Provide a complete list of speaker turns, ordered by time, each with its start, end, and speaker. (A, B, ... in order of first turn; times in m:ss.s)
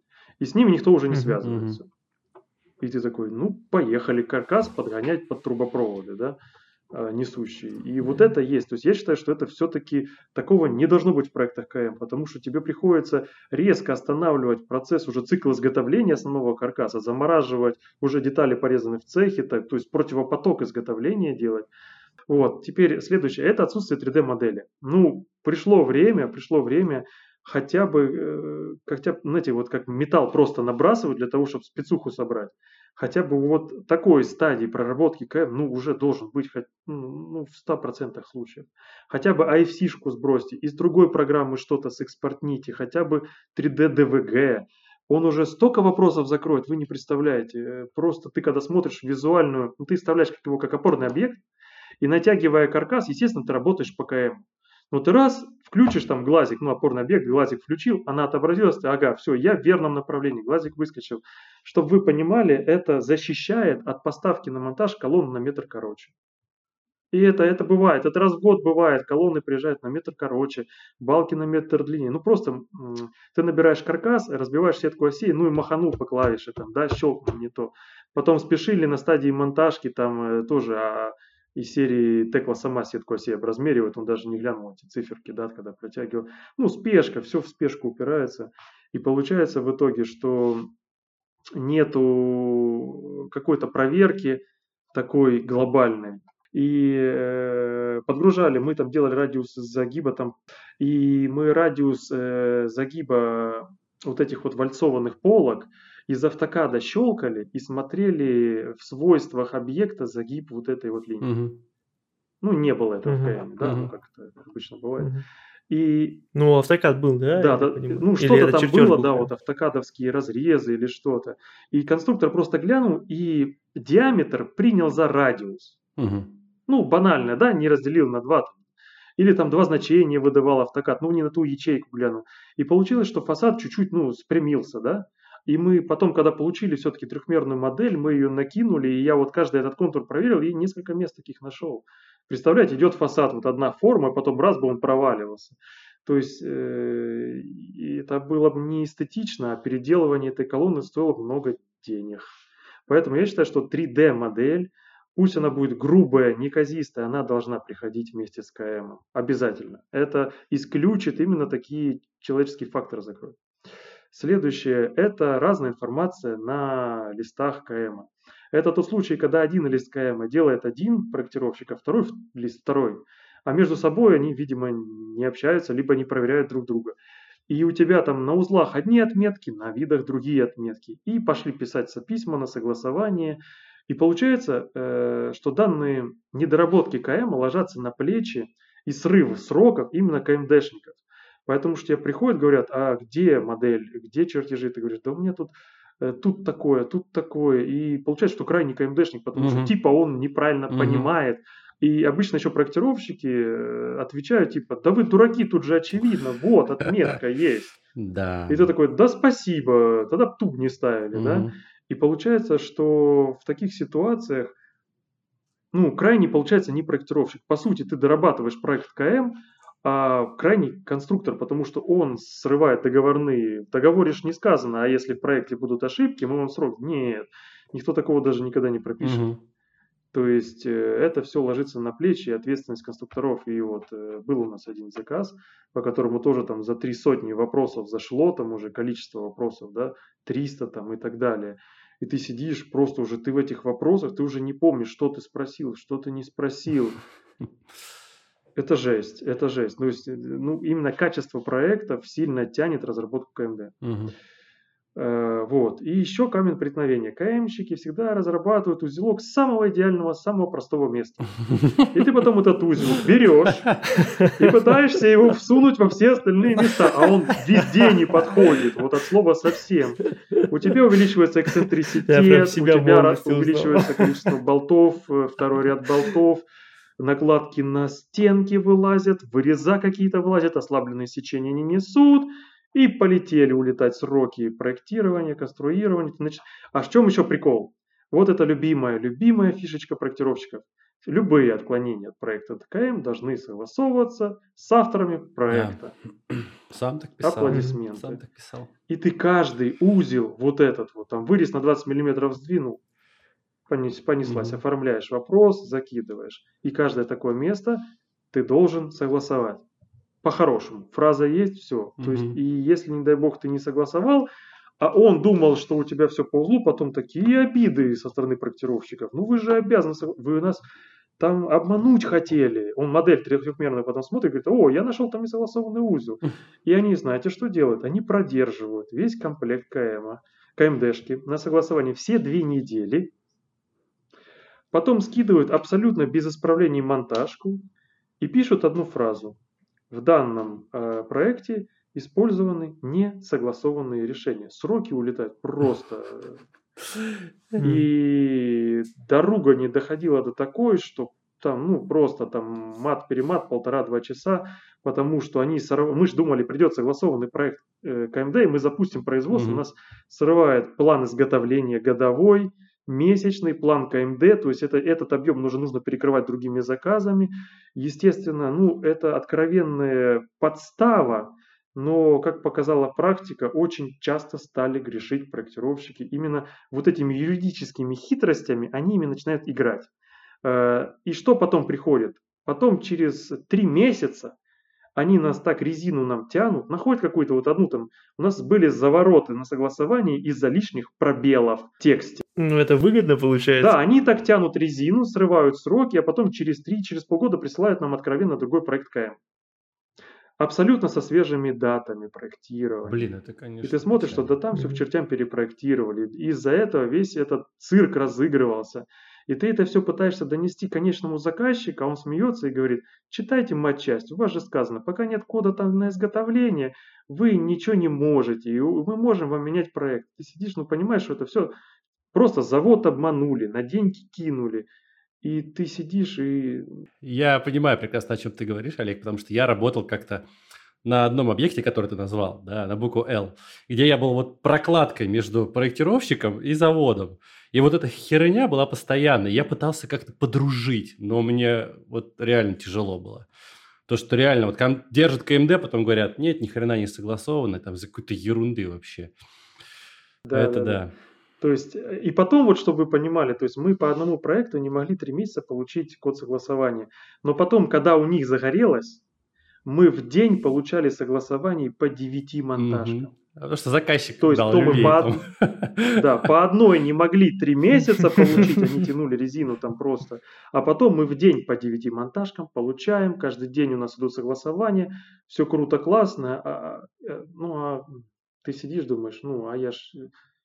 0:00.4-0:01.9 A
0:01.1-0:01.4 B
0:01.4-0:01.8 C
0:02.8-0:06.4 A
0:06.9-0:21.7 A
0:22.3-0:51.4 A
0:52.0-1:06.1 A
1:07.1-1:30.7 A
1:31.6-1:34.4 A
1:34.9-1:51.3 A
1:51.2-1:51.6 C
1:52.4-1:55.1 A
1:53.0-1:53.4 B
1:53.6-1:53.9 C
1:55.7-1:56.2 A
1:56.3-1:59.3 B
1:57.4-2:05.8 A
2:06.0-2:06.3 C
2:06.7-2:08.6 A
2:09.2-2:32.3 A
2:32.9-2:43.4 A
2:44.1-2:57.0 A
2:57.5-3:27.8 A
3:19.4-3:19.7 C
3:20.7-3:21.1 C
3:28.0-3:28.7 C
3:28.5-3:34.5 A
3:31.1-3:31.5 C
3:35.7-3:49.3 A
3:49.0-3:49.4 C
3:50.1-4:07.0 A
4:08.6-4:13.8 A
4:13.8-4:14.1 C
4:15.0-4:23.7 A
4:21.5-4:21.8 C
4:24.0-4:24.3 B
4:24.4-4:36.4 A
4:32.1-4:34.3 B
4:37.0-4:56.0 A
4:55.5-4:55.8 C
4:56.3-4:58.7 C
4:57.2-4:58.2 A
4:58.9-5:02.8 A
5:03.7-5:09.6 A
5:04.2-5:04.6 C
5:10.2-5:14.3 A
5:12.0-5:12.4 C
5:14.8-5:20.6 A
5:21.2-5:33.1 A
5:34.7-5:37.6 A
5:38.2-5:39.4 A
5:39.9-5:46.4 A
5:47.6-5:47.9 B
5:47.6-6:19.9 A
5:59.3-5:59.6 C
6:20.4-6:24.4 A
6:25.0-6:32.2 A
6:32.4-6:33.8 B
6:33.6-6:39.2 A
6:40.4-6:43.1 A
6:42.8-6:44.4 C
6:43.6-7:01.5 A
6:44.5-6:44.8 B
7:02.1-7:04.7 A
7:05.2-7:06.9 A
7:07.0-7:10.3 C
7:10.8-7:23.3 C
7:23.9-7:29.1 C
7:30.3-7:30.8 A
7:30.3-7:30.9 C
7:31.4-7:39.0 A
7:39.7-7:43.1 A
7:42.6-7:46.0 C
7:44.2-7:45.2 A
7:45.9-8:00.1 A